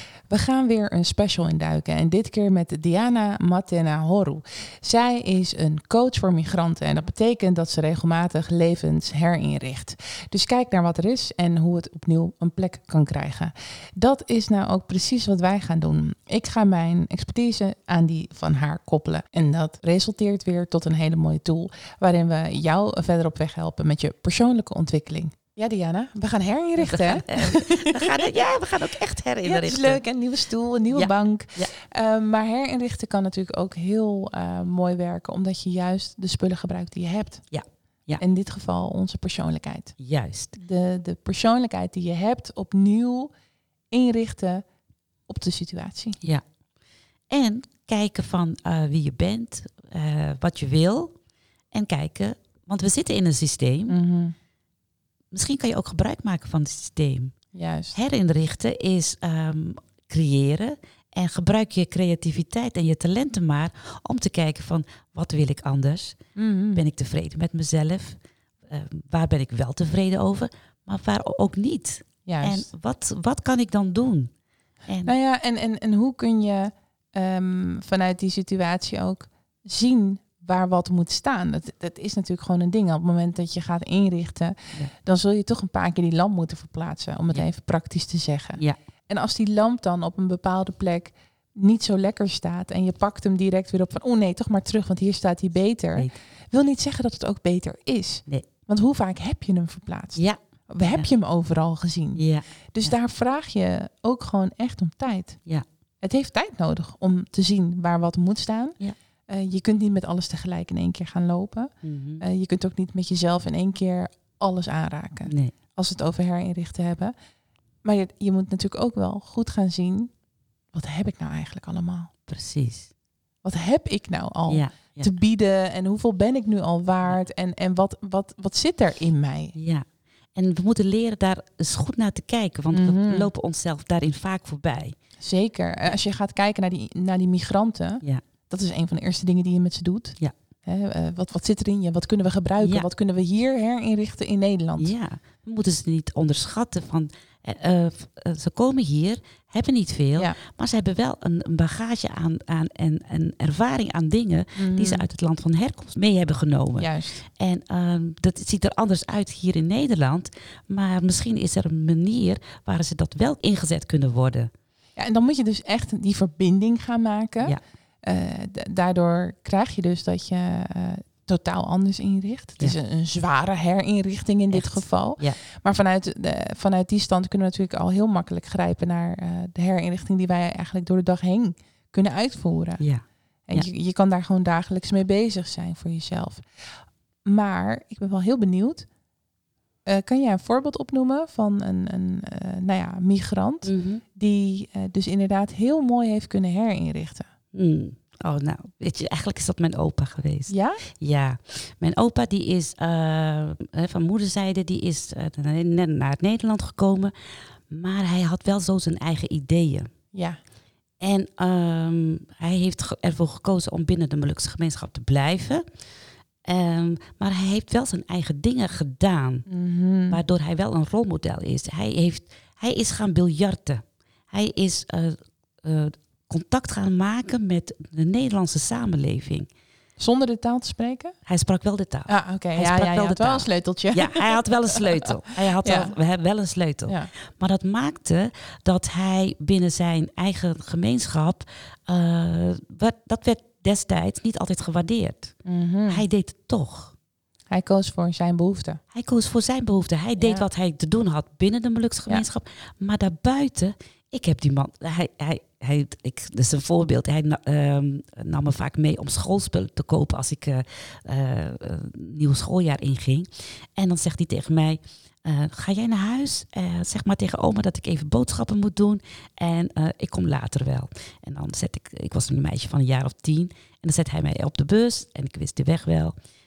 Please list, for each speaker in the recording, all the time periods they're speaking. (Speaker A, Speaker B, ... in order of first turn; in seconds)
Speaker A: 0.3-28.3, 29.4-37.4, 38.2-40.0, 40.5-43.3, 43.9-44.6, 45.3-46.2, 53.9-54.3, 57.5-58.0, 66.3-66.8, 72.2-72.7, 75.0-102.2, 102.7-105.4, 106.0-108.8, 109.3-117.1, 117.8-120.1, 120.7-122.1, 123.4-129.5, 132.7-133.3, 135.2-144.9, 154.6-155.1, 156.8-157.2, 165.0-182.8, 183.5-186.4, 187.2-188.8, 189.8-197.3, 200.5-200.8, 210.1-210.4, 219.5-220.2, 230.0-231.1, 232.1-235.9, 245.4-246.0, 247.5-248.8, 250.2-250.4
Speaker B: 26.8-30.0, 30.9-31.7, 37.5-38.2, 40.0-40.5, 47.3-51.1, 51.7-53.9, 55.3-57.3, 57.9-66.2, 66.7-74.3, 74.9-75.1, 100.2-101.0, 102.2-102.9, 111.8-112.2, 115.3-115.5, 122.3-122.9, 124.5-125.1, 129.5-129.8, 130.3-134.9, 142.6-142.9, 144.8-164.5, 174.5-175.4, 182.8-183.7, 193.6-194.0, 197.5-207.1, 207.7-209.9, 211.0-215.6, 216.4-219.4, 220.1-229.5, 231.2-245.3, 245.9-246.9, 248.9-276.1